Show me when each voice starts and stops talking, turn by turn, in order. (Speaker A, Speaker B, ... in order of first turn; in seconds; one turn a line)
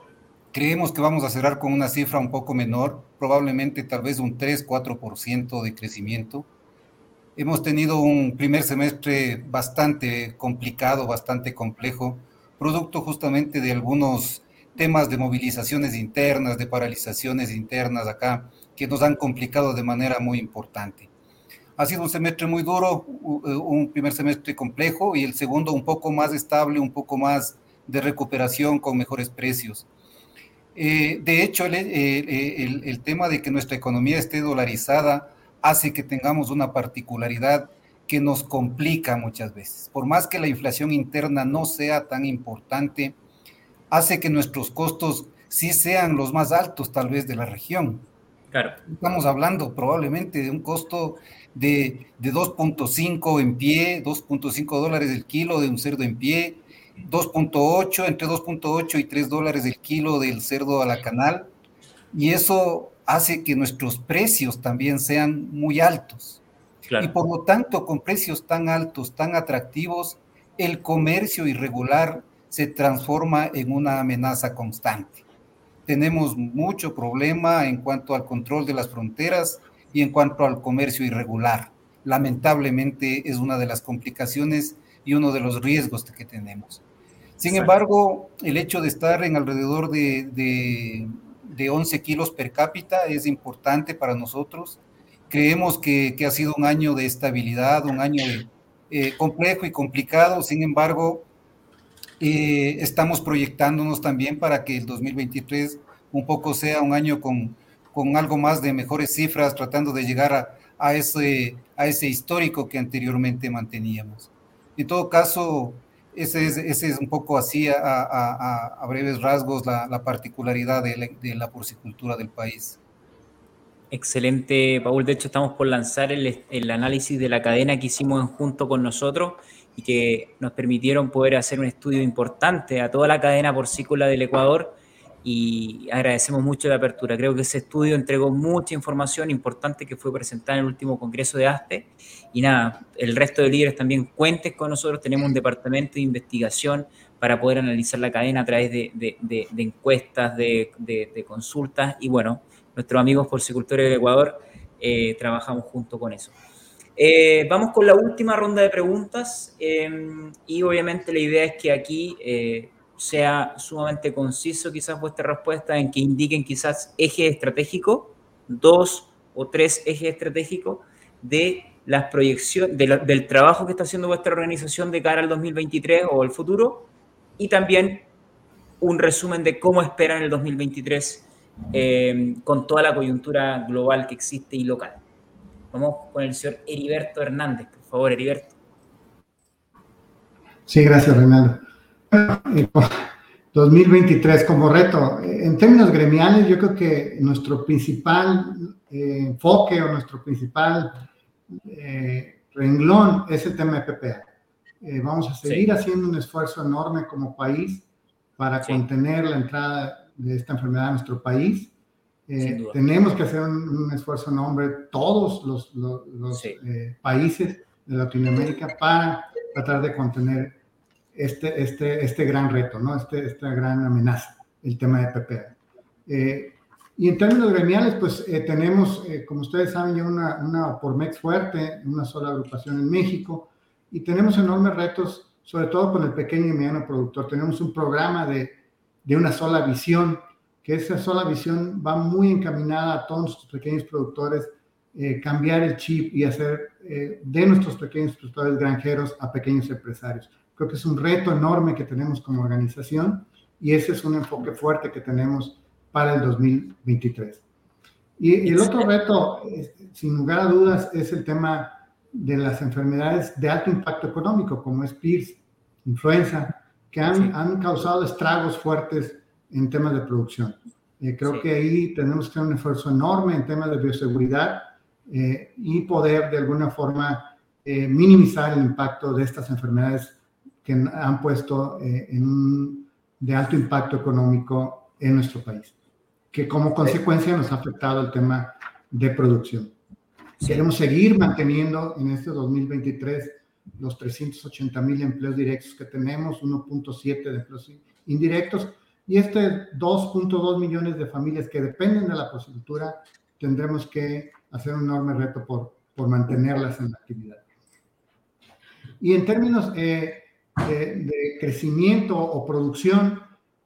Speaker A: 0.5-6.5
Speaker A: 7.4-21.1
Speaker A: 21.8-29.9
Speaker A: 30.7-43.2
Speaker A: 43.9-48.1
Speaker B: 48.5-48.8
Speaker A: 48.9-61.5
Speaker A: 62.1-66.4
Speaker A: 67.0-75.2
Speaker A: 75.9-86.8
Speaker A: 87.4-101.3
Speaker B: 87.5-87.7
Speaker A: 102.2-122.8
Speaker B: 123.9-156.4
Speaker B: 157.0-178.1
Speaker B: 178.8-185.0
Speaker B: 185.7-188.5
Speaker C: 190.7-204.3
Speaker C: 204.8-207.9
Speaker B: 205.4-205.7
Speaker C: 208.4-211.7
Speaker C: 212.3-220.6
Speaker B: 212.4-212.8
Speaker B: 216.3-216.6
Speaker C: 221.1-257.4
Speaker C: 258.2-285.8
Speaker B: 258.5-258.9
Speaker B: 267.1-267.4
Speaker C: 286.3-289.7
Speaker B: 290.4-290.7
Speaker C: 290.4-307.4
Speaker C: 309.0-313.3